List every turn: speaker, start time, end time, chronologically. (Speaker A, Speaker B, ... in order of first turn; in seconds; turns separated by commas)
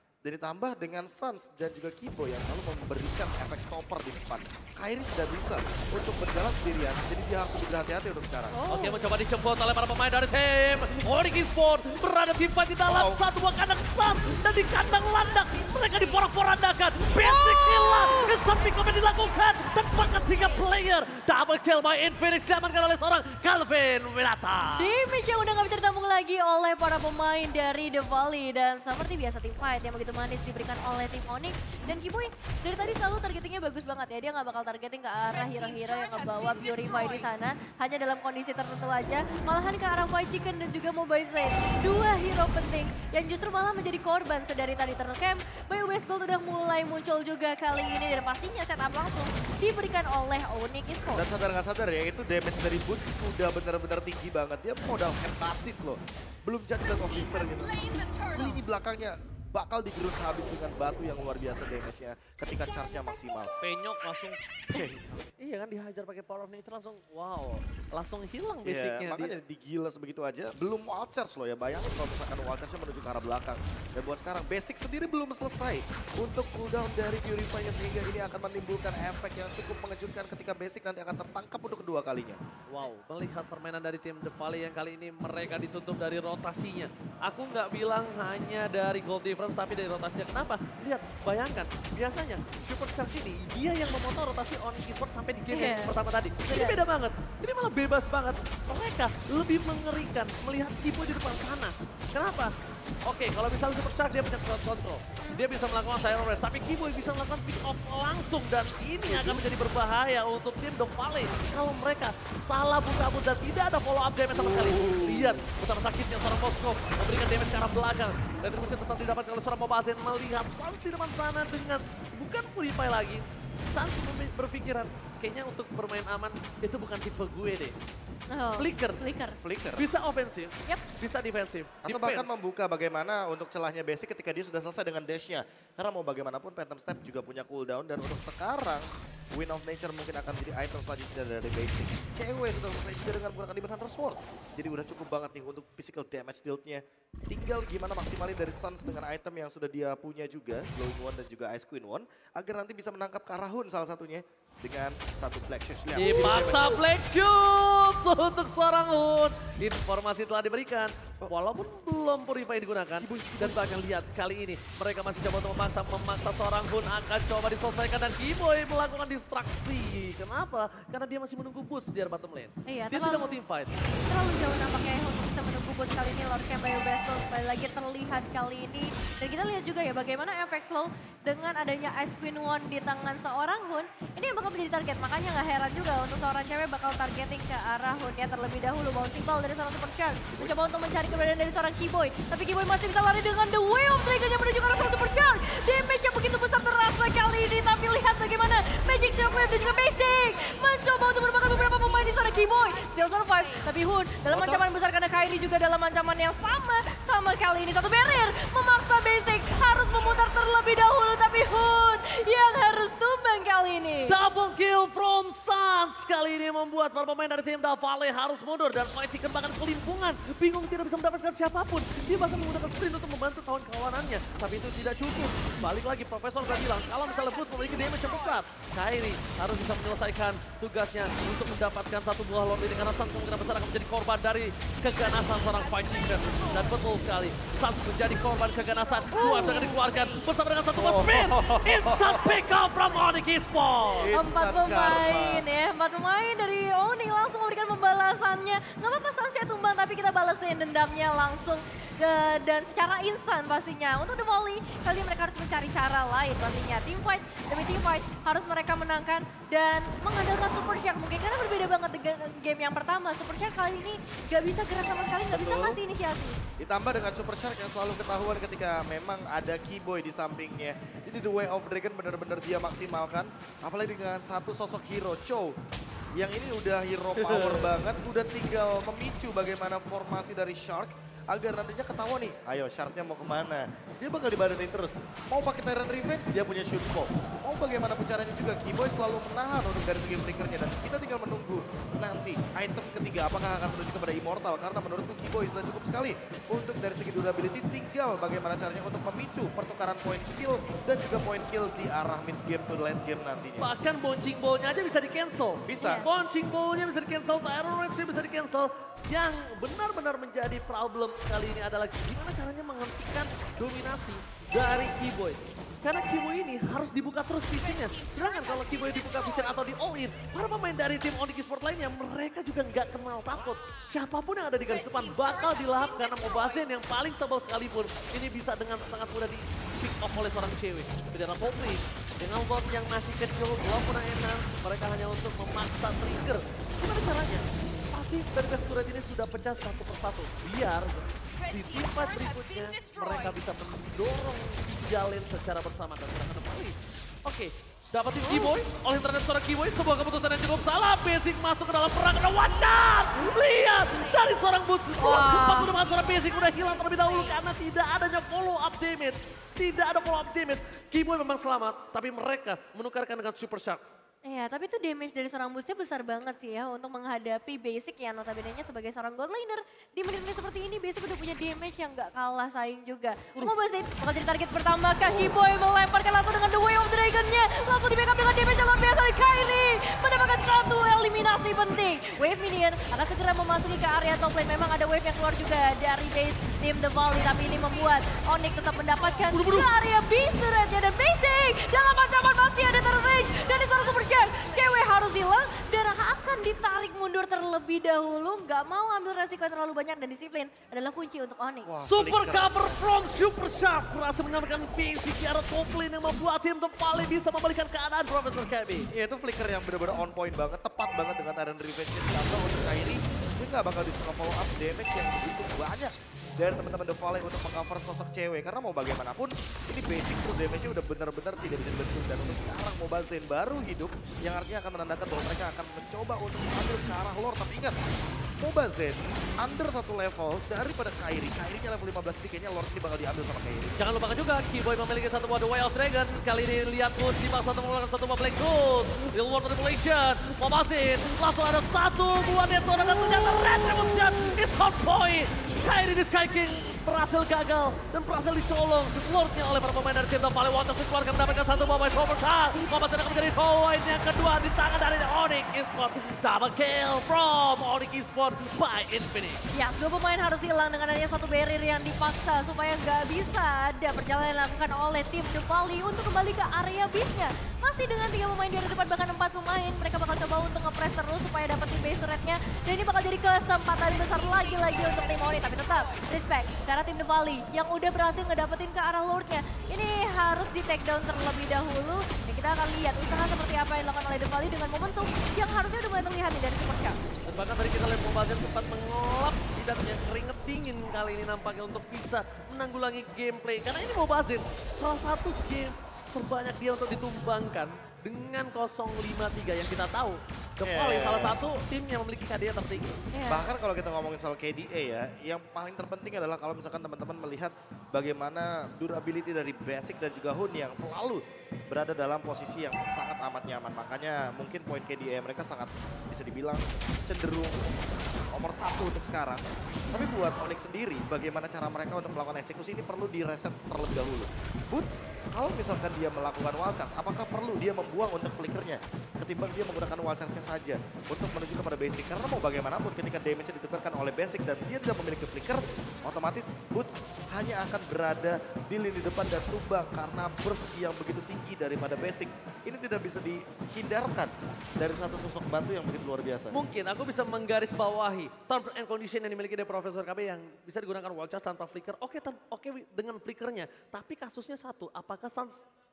Speaker A: 0.2-8.6, Speaker B: 8.5-9.1, Speaker C: 8.7-24.9, Speaker A: 12.9-13.2, Speaker B: 17.2-18.3, Speaker B: 24.8-51.2, Speaker A: 51.1-63.5, Speaker C: 63.6-64.4, Speaker A: 64.7-65.0, Speaker C: 65.4-69.3, Speaker A: 68.6-82.4, Speaker C: 82.7-102.5, Speaker B: 95.5-95.9, Speaker B: 96.5-96.8, Speaker C: 103.0-127.8, Speaker A: 109.0-109.4, Speaker A: 114.3-115.4, Speaker B: 128.3-129.4, Speaker C: 128.6-129.0, Speaker A: 129.4-129.9, Speaker C: 129.8-132.4, Speaker A: 131.8-156.7, Speaker C: 155.9-173.9, Speaker B: 156.0-156.5, Speaker A: 163.0-163.6, Speaker B: 172.7-173.4, Speaker B: 174.1-214.2, Speaker A: 204.3-204.7, Speaker C: 214.1-244.1, Speaker B: 239.1-239.8, Speaker A: 240.8-242.4, Speaker A: 244.0-245.5, Speaker B: 244.1-266.4, Speaker A: 265.3-265.8, Speaker A: 266.6-275.5, Speaker A: 276.1-303.7, Speaker C: 277.1-277.8, Speaker C: 303.6-363.8, Speaker A: 305.6-306.1, Speaker B: 305.8-306.1, Speaker B: 348.2-348.6, Speaker B: 355.0-355.8, Speaker B: 364.2-401.7, Speaker C: 389.3-389.7, Speaker A: 401.6-402.8, Speaker C: 401.8-408.9, Speaker A: 408.9-427.8, Speaker A: 428.4-433.8, Speaker C: 433.8-459.4, Speaker B: 459.5-487.0, Speaker C: 487.3-503.0, Speaker A: 500.6-501.4, Speaker B: 503.1-503.5, Speaker A: 503.3-517.7, Speaker A: 518.3-546.6, Speaker C: 546.5-555.5